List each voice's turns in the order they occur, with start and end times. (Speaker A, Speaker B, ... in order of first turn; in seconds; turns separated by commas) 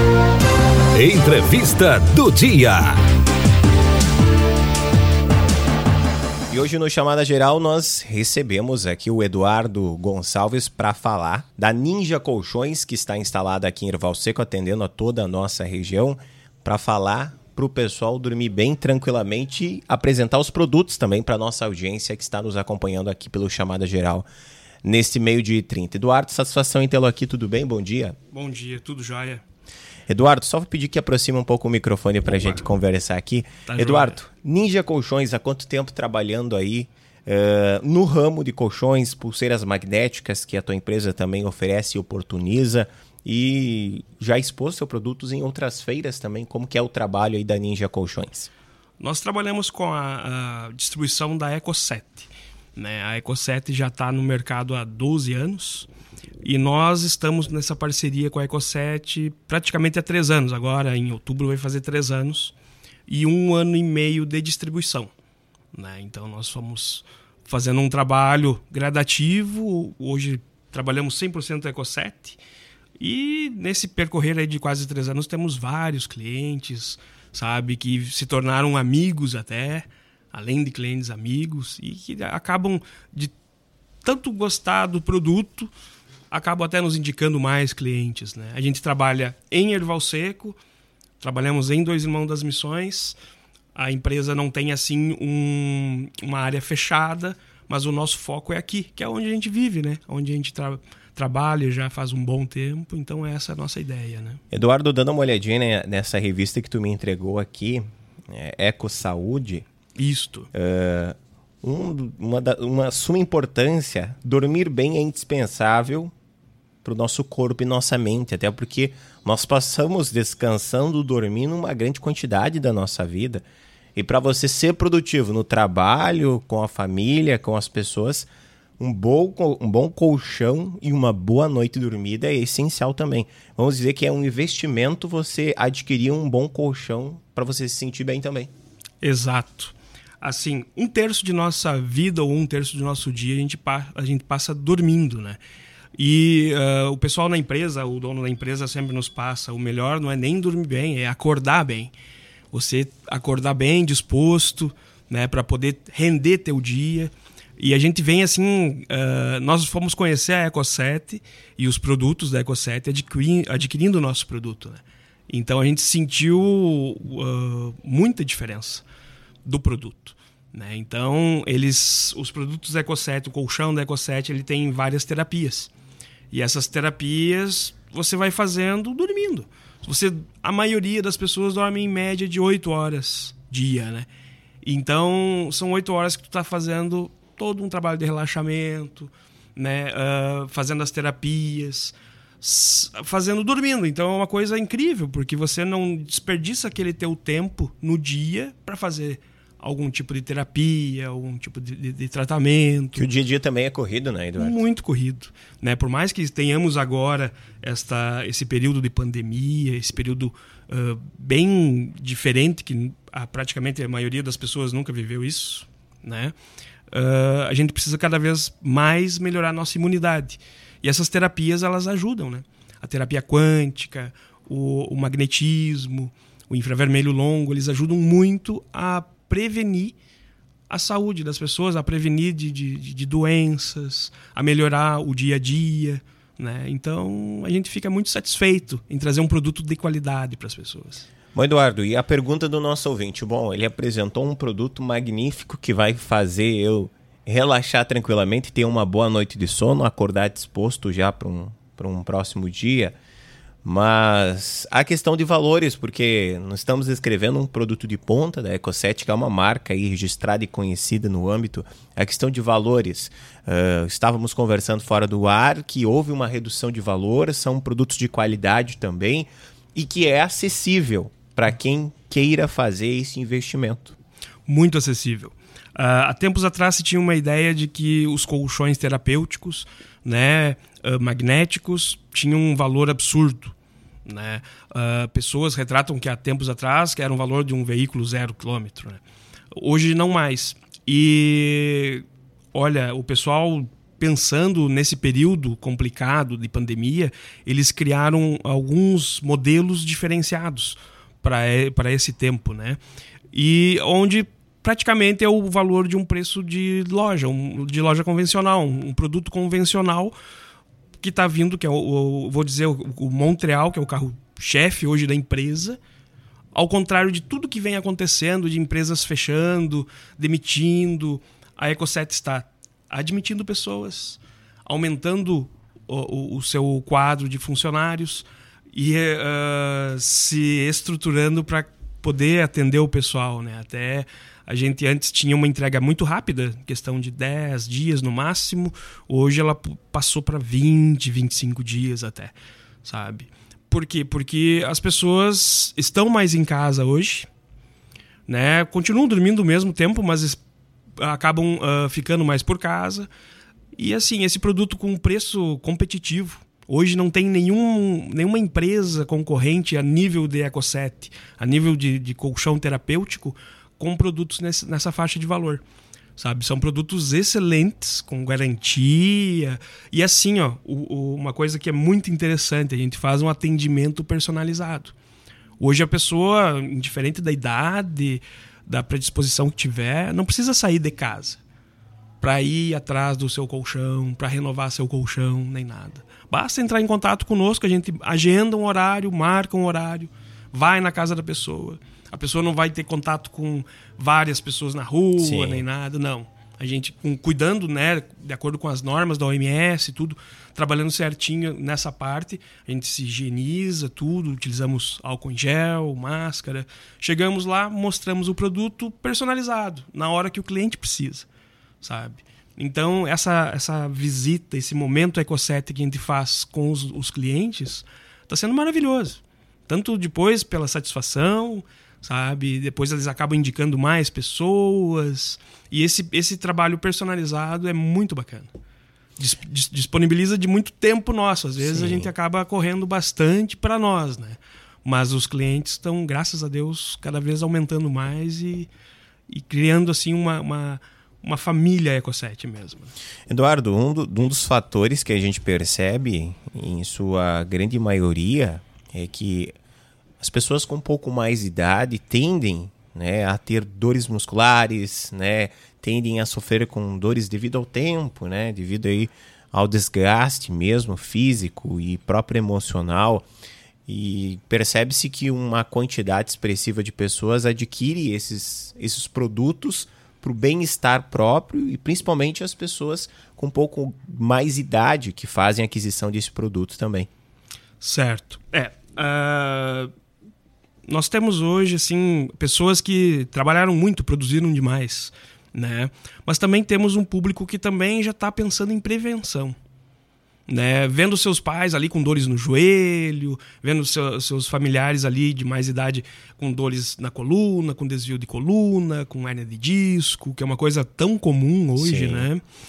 Speaker A: 0.9-3.0, Speaker B: 6.5-24.3, Speaker B: 24.8-28.2, Speaker C: 28.3-29.4, Speaker B: 30.1-48.5, Speaker C: 33.7-34.2, Speaker C: 49.0-55.9, Speaker C: 56.4-62.5, Speaker C: 63.1-65.1, Speaker C: 65.7-72.4, Speaker C: 73.0-83.3, Speaker C: 84.0-85.7, Speaker C: 86.3-90.6, Speaker C: 91.2-93.2, Speaker C: 93.8-104.4, Speaker B: 104.5-109.7, Speaker C: 110.0-110.5, Speaker B: 110.5-116.1, Speaker B: 116.8-123.5, Speaker B: 124.0-128.3, Speaker B: 128.8-138.5, Speaker C: 139.0-145.4, Speaker C: 146.0-151.9, Speaker C: 152.5-168.8, Speaker C: 169.4-175.7, Speaker C: 176.3-184.1, Speaker C: 184.6-203.1, Speaker B: 202.9-204.6, Speaker C: 204.4-216.3, Speaker C: 216.9-229.9, Speaker C: 230.7-241.1, Speaker B: 241.3-252.9, Speaker B: 253.6-274.0, Speaker C: 274.5-283.6, Speaker C: 284.1-289.0, Speaker C: 289.5-310.1, Speaker C: 311.0-315.8, Speaker C: 316.5-347.3, Speaker C: 348.3-350.4, Speaker C: 351.0-353.1, Speaker C: 353.8-365.6, Speaker C: 366.2-374.9, Speaker C: 375.6-381.4, Speaker C: 382.2-411.3, Speaker B: 395.2-395.7, Speaker C: 411.8-428.5, Speaker C: 429.2-438.7, Speaker B: 431.6-432.1, Speaker C: 439.3-442.9, Speaker B: 443.3-449.5, Speaker B: 450.2-463.3, Speaker B: 463.9-477.1, Speaker C: 477.8-479.9, Speaker C: 480.9-489.6, Speaker C: 490.5-502.4, Speaker B: 501.8-502.3